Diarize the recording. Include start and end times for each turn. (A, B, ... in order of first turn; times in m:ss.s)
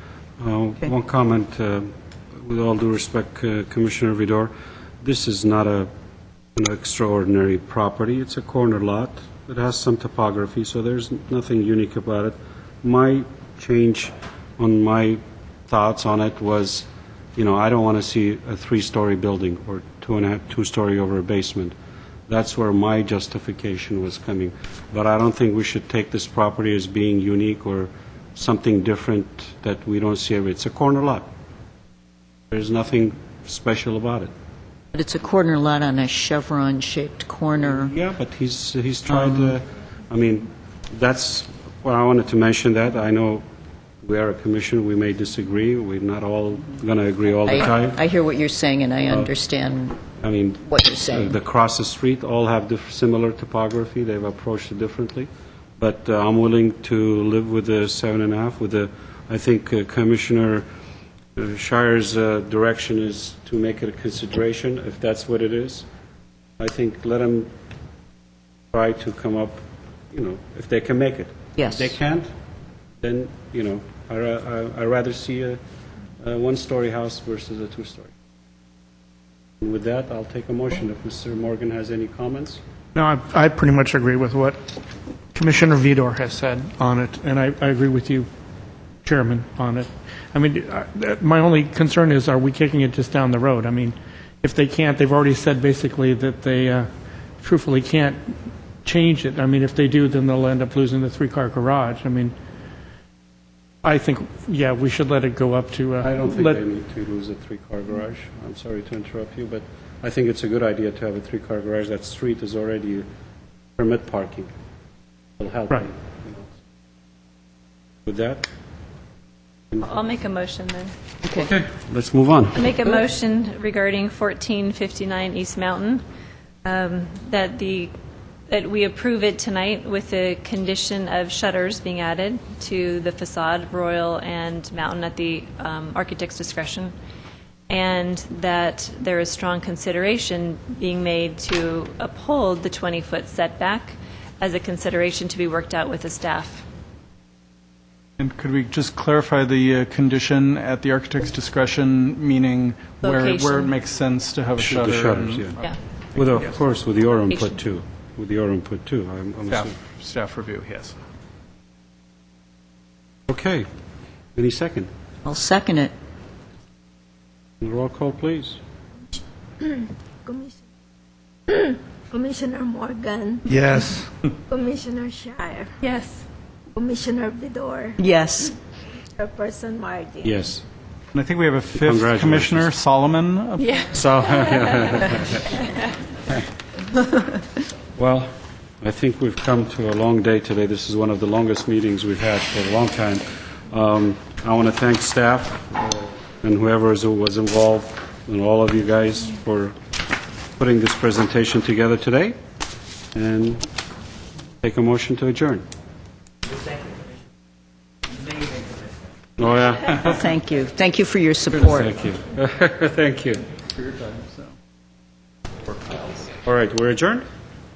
0:00.4-0:05.9 A
0:06.6-0:21.7 A
0:22.3-0:31.3 A
0:32.5-0:34.3 A
0:34.9-0:37.9 B
0:37.6-0:43.4 A
0:44.0-0:48.0 A
0:47.4-0:50.0 B
0:50.2-1:00.6 A
0:50.6-0:51.3 B
1:01.3-1:05.8 A
1:06.6-1:07.5 A
1:08.7-1:12.3 A
1:11.6-1:11.9 B
1:13.0-1:15.6 A
1:16.2-1:18.1 A
1:19.6-1:22.6 A
1:22.9-1:24.6 C
1:25.3-1:28.3 C
1:29.0-1:36.9 C
1:37.4-1:38.3 C
1:38.8-1:42.3 C
1:43.8-1:46.6 C
1:46.0-1:53.1 A
1:53.8-1:54.5 A
1:55.4-1:56.5 A
1:58.0-1:58.5 A
1:59.8-2:00.9 D
2:01.4-2:02.6 A
2:02.5-2:06.0 D
2:06.6-2:07.9 D
2:08.5-2:16.9 D
2:17.7-2:26.6 D
2:28.2-2:36.6 E
2:33.0-2:33.7 D
2:34.6-2:35.6 A
2:36.1-2:39.8 A
2:39.4-2:41.0 E
2:43.3-2:43.6 A
2:44.3-2:44.9 A
2:45.2-2:45.9 B
2:47.6-2:48.6 A
2:49.6-2:50.6 F
2:51.5-2:53.4 F
2:53.5-2:54.0 E
2:54.5-2:55.7 F
2:55.8-2:56.2 D
2:56.7-2:58.0 F
2:58.0-2:58.5 B
2:59.2-3:00.3 F
3:00.2-3:00.6 A
3:01.1-3:03.8 E
3:01.8-3:02.7 A
3:03.6-3:04.4 D
3:03.9-3:05.5 A
3:08.0-3:19.7 A
3:20.6-3:22.4 A
3:23.1-3:23.6 A
3:24.6-3:25.6 A
3:29.4-3:30.1 A
3:30.0-3:31.9 B
3:31.6-3:33.4 A
3:33.8-3:34.5 E
3:36.4-3:37.2 A